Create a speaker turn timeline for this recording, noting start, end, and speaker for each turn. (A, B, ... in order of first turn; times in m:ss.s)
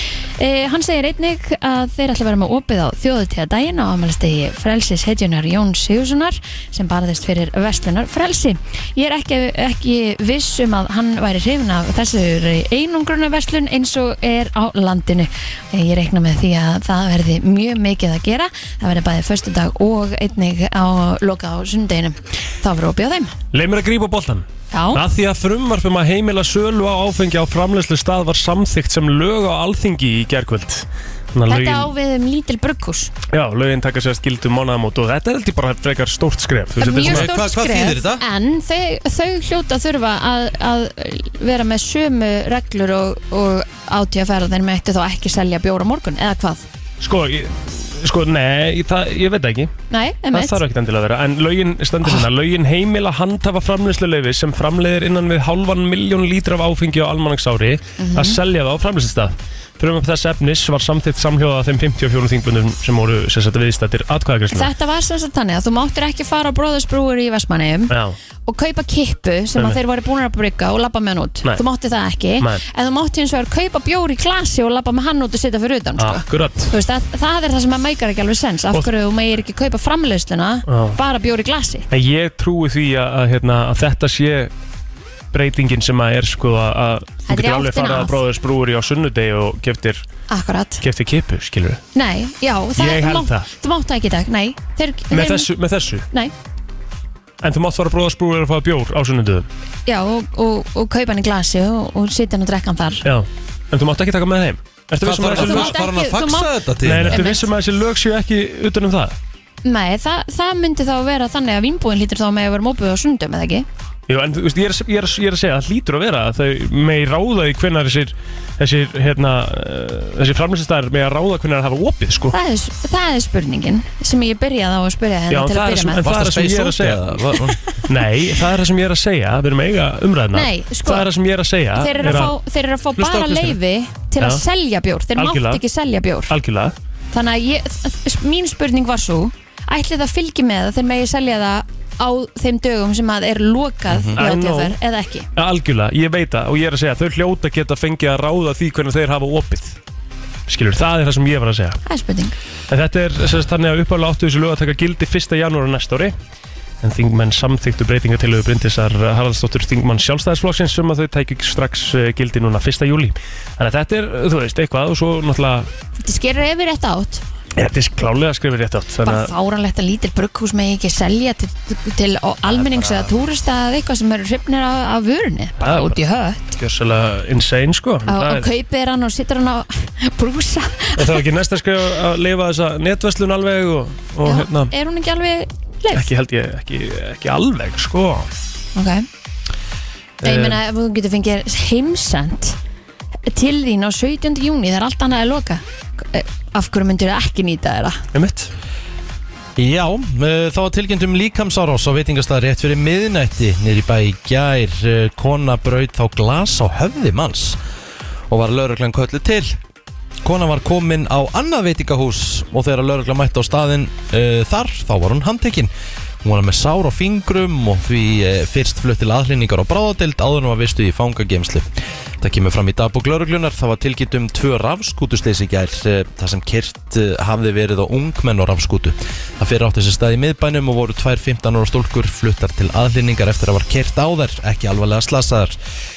0:00.4-0:23.3 A
0:23.5-0:31.9 B
0:24.7-0:25.0 A
0:31.5-0:33.1 A
0:33.3-0:37.3 B
0:36.8-0:46.6 A
0:37.0-0:38.2 C
0:47.0-0:49.7 B
0:49.9-0:50.6 A
0:50.3-1:04.7 B
0:58.0-0:58.4 A
1:04.5-1:21.9 A
1:07.9-1:08.2 B
1:16.0-1:16.7 B
1:20.7-1:21.0 B
1:21.9-1:24.5 B
1:25.3-1:30.0 B
1:27.3-1:28.2 A
1:30.3-1:30.8 A
1:30.8-1:31.8 B
1:32.0-1:35.5 A
1:32.8-1:33.5 B
1:35.1-1:36.1 B
1:37.4-1:39.5 B
1:39.9-1:43.0 A
1:43.0-1:45.8 B
1:45.0-1:47.2 C
1:45.3-1:46.5 A
1:46.8-1:49.2 B
1:47.1-1:47.5 A
1:49.6-1:53.7 A
1:54.1-2:02.4 B
2:02.3-2:06.0 A
2:05.3-2:07.2 B
2:06.0-2:07.6 C
2:07.9-2:12.4 B
2:10.3-2:11.1 A
2:11.7-2:16.3 A
2:13.0-2:13.6 C
2:14.2-2:14.4 B
2:15.2-2:15.6 B
2:16.3-2:16.7 B
2:17.1-2:25.3 A
2:23.9-2:24.2 C
2:24.2-2:24.8 B
2:25.4-2:29.8 B
2:30.5-2:31.8 B
2:31.8-2:32.4 A
2:32.7-2:36.1 B
2:36.8-2:45.7 B
2:46.0-2:47.2 A
2:47.6-2:49.3 B
2:49.0-2:56.6 A
2:55.6-2:56.0 B
2:56.6-2:58.5 B
2:58.1-3:01.2 A
3:01.0-3:04.7 B
3:04.2-3:06.1 A
3:05.9-3:08.3 B
3:08.8-3:09.1 A
3:10.2-3:10.6 B
3:10.2-3:12.6 A
3:13.3-3:18.0 A
3:18.1-3:18.5 B
3:19.6-3:27.6 C
3:28.3-3:29.6 C
3:30.2-3:35.7 C
3:36.2-3:41.7 C
3:42.2-3:55.6 C